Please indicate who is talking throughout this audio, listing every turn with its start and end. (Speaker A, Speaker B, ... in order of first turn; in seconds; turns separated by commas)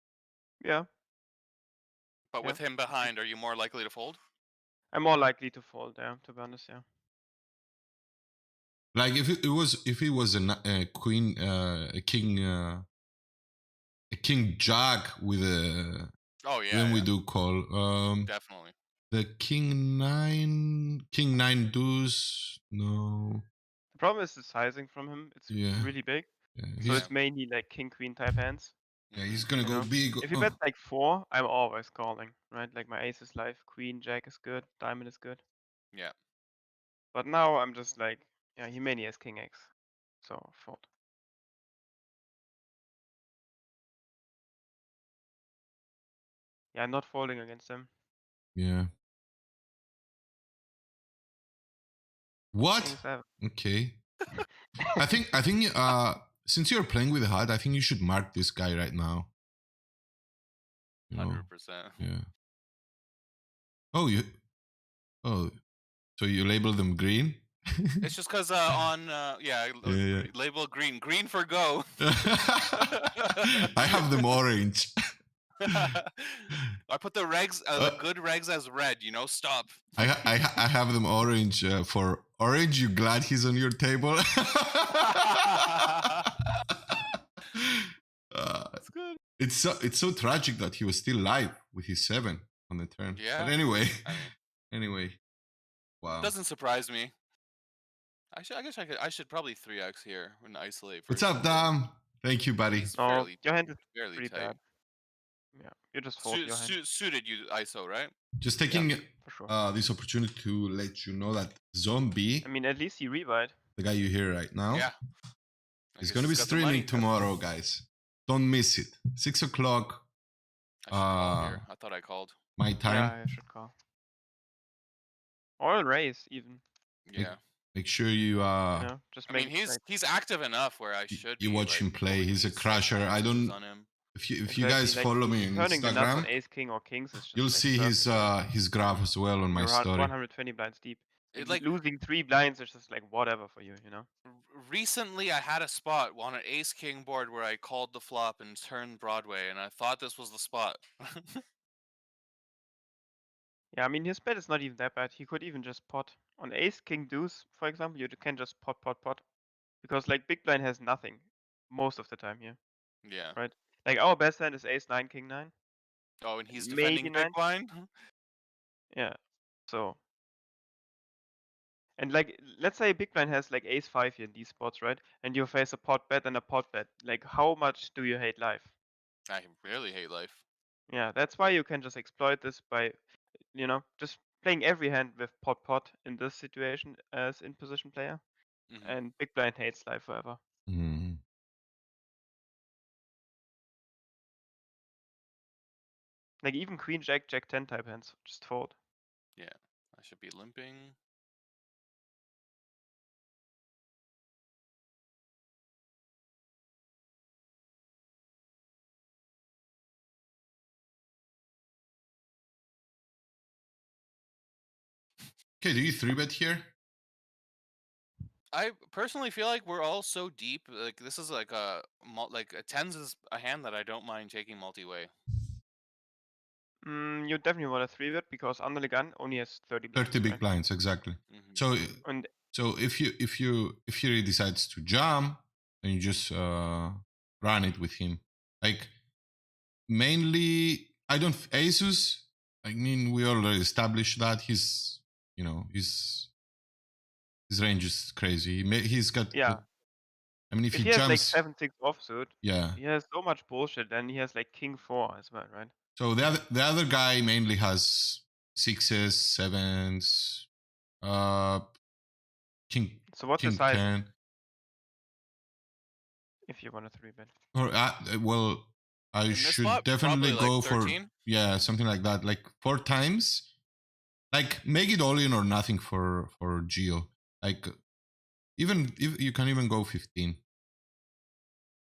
Speaker A: 0.6-0.9, Speaker B: 2.3-4.2, Speaker A: 2.4-3.1, Speaker A: 4.9-6.8, Speaker C: 8.9-12.8, Speaker C: 14.1-16.1, Speaker B: 16.4-17.1, Speaker C: 16.7-18.3, Speaker B: 18.2-18.7, Speaker C: 19.1-23.4, Speaker A: 23.9-28.8, Speaker C: 25.5-25.9, Speaker C: 26.6-27.1, Speaker B: 26.8-27.1, Speaker B: 29.1-29.5, Speaker C: 29.1-30.5, Speaker A: 29.6-35.4, Speaker A: 37.1-39.7, Speaker A: 40.2-40.8, Speaker A: 46.7-47.9, Speaker C: 48.6-48.9, Speaker C: 52.5-54.0, Speaker A: 52.8-53.3, Speaker C: 55.0-59.3, Speaker C: 61.1-61.5, Speaker B: 61.1-62.1, Speaker C: 62.0-62.2, Speaker C: 63.9-64.3, Speaker C: 65.2-65.5, Speaker C: 66.2-68.0, Speaker B: 68.0-72.0, Speaker C: 69.8-70.3, Speaker C: 72.0-72.9, Speaker B: 72.8-74.0, Speaker C: 73.7-74.9, Speaker B: 75.6-79.9, Speaker C: 80.0-85.3, Speaker B: 85.2-86.3, Speaker C: 87.5-88.8, Speaker B: 88.8-89.2, Speaker C: 89.4-95.2, Speaker B: 93.1-94.3, Speaker C: 96.0-96.3, Speaker B: 96.1-97.1, Speaker B: 98.3-101.7, Speaker C: 101.1-102.9, Speaker B: 102.7-104.6, Speaker A: 103.0-104.6, Speaker A: 105.5-106.8, Speaker B: 106.2-108.1, Speaker C: 108.4-112.5, Speaker B: 108.7-108.9, Speaker A: 109.2-109.5, Speaker A: 112.4-113.6, Speaker C: 113.8-114.9, Speaker B: 114.7-115.0, Speaker B: 116.0-117.1, Speaker C: 116.0-120.1, Speaker B: 120.8-122.4, Speaker C: 120.9-121.6, Speaker C: 122.6-123.2, Speaker A: 122.8-123.7, Speaker A: 125.6-126.6, Speaker B: 127.1-127.4, Speaker C: 127.2-128.9, Speaker A: 128.8-129.8, Speaker B: 129.3-133.9, Speaker C: 131.1-133.6, Speaker C: 134.1-136.3, Speaker A: 134.5-138.3, Speaker C: 137.3-140.1, Speaker A: 139.5-144.1, Speaker B: 141.3-141.7, Speaker B: 144.3-151.4, Speaker A: 153.7-159.2, Speaker A: 159.8-162.6, Speaker B: 163.0-163.4, Speaker A: 163.3-165.5, Speaker B: 166.2-167.9, Speaker A: 166.5-167.4, Speaker A: 168.9-170.0, Speaker A: 172.0-178.7, Speaker B: 179.3-180.4, Speaker A: 180.9-183.0, Speaker A: 183.5-188.2, Speaker B: 188.7-189.0, Speaker A: 188.8-190.4, Speaker C: 190.7-191.2, Speaker A: 196.4-198.8, Speaker B: 199.4-201.0, Speaker C: 215.6-216.7, Speaker B: 218.5-225.1, Speaker A: 226.8-230.4, Speaker C: 229.9-238.9, Speaker B: 231.3-231.7, Speaker A: 232.0-232.3, Speaker C: 239.9-246.3, Speaker C: 247.5-249.6, Speaker A: 249.3-249.6, Speaker C: 250.5-251.4, Speaker A: 250.7-255.7, Speaker C: 252.4-252.8, Speaker C: 256.0-260.5, Speaker C: 261.0-261.7, Speaker C: 262.7-264.1, Speaker A: 263.1-263.9, Speaker A: 266.5-267.3, Speaker C: 267.5-273.5, Speaker B: 269.3-271.1, Speaker C: 274.3-277.7, Speaker C: 278.6-280.4